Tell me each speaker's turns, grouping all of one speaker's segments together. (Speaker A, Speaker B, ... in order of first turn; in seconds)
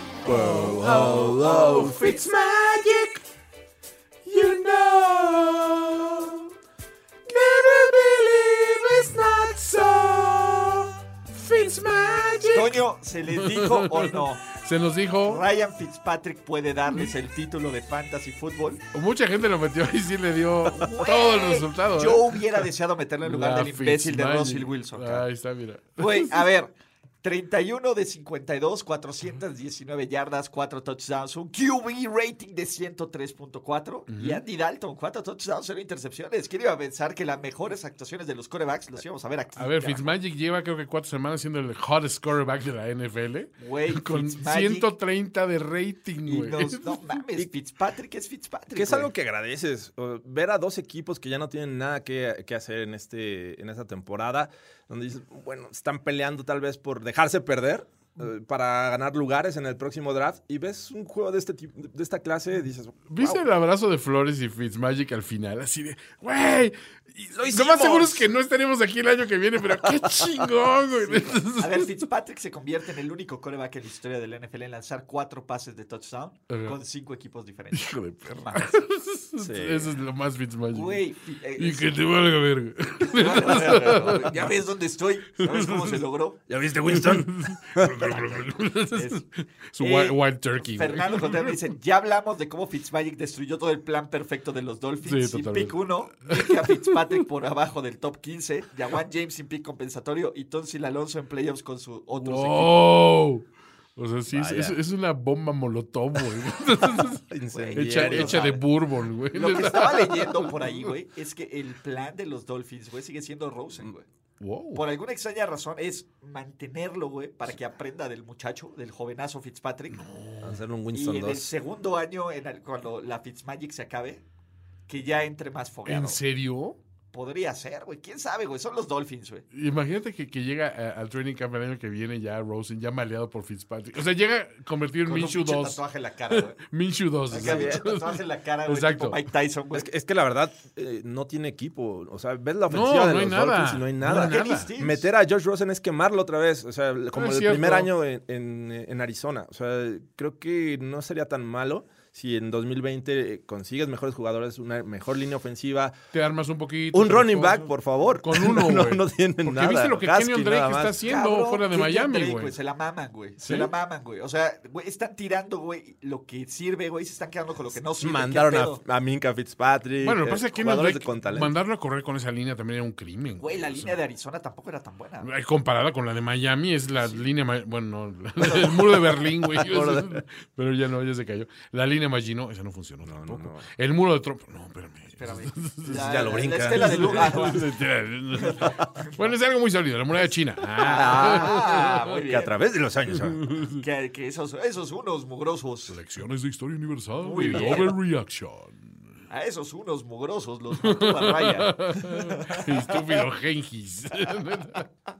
Speaker A: 0.2-3.2, 4.2-6.5, 7.3-12.8, 13.3-15.4, 18.9-22.7, 23.2-26.4, 34.1-34.4, 39.5-47.1, 63.1-71.9, 76.5-76.8, 77.7-81.0, 81.6-84.5, 85.4-86.0, 86.9-91.6, 95.0-97.2, 102.2-107.2, 107.8-110.9, 114.4-114.8, 119.9-120.6, 125.8-126.8, 129.5-139.2, 142.7-144.7, 147.1-147.9, 156.1-162.6, 170.0-174.0, 175.2-192.0, 193.1-193.8, 195.9-199.0, 200.8-204.9
Speaker B: 0.2-1.9, 48.7-63.4, 67.3-68.3, 69.8-70.3, 79.4-80.0, 86.5-88.4, 104.3-104.8, 107.0-108.6, 120.4-121.5, 137.3-138.0, 139.7-155.9, 156.9-161.0, 163.4-163.7, 168.0-171.5, 179.5-180.2, 183.0-183.7, 185.8-187.6, 190.9-191.7, 192.2-193.5
Speaker C: 1.4-2.0, 12.5-14.4, 15.2-18.8, 20.7-25.2, 26.0-40.1, 43.6-44.9, 46.2-49.1, 71.0-78.8, 80.7-81.9, 83.0-86.4, 88.9-89.2, 89.8-102.8, 107.5-108.7, 109.3-114.0, 114.7-120.0, 120.9-124.2, 124.9-126.2, 127.1-129.4, 135.0-136.6, 137.3-139.9, 144.0-145.1, 161.0-168.8, 173.4-175.3, 177.0-177.2, 178.4-179.2, 185.1-187.6, 188.4-189.3, 190.8-192.5, 193.8-196.0, 197.2-198.0, 199.3-203.2, 204.3-204.8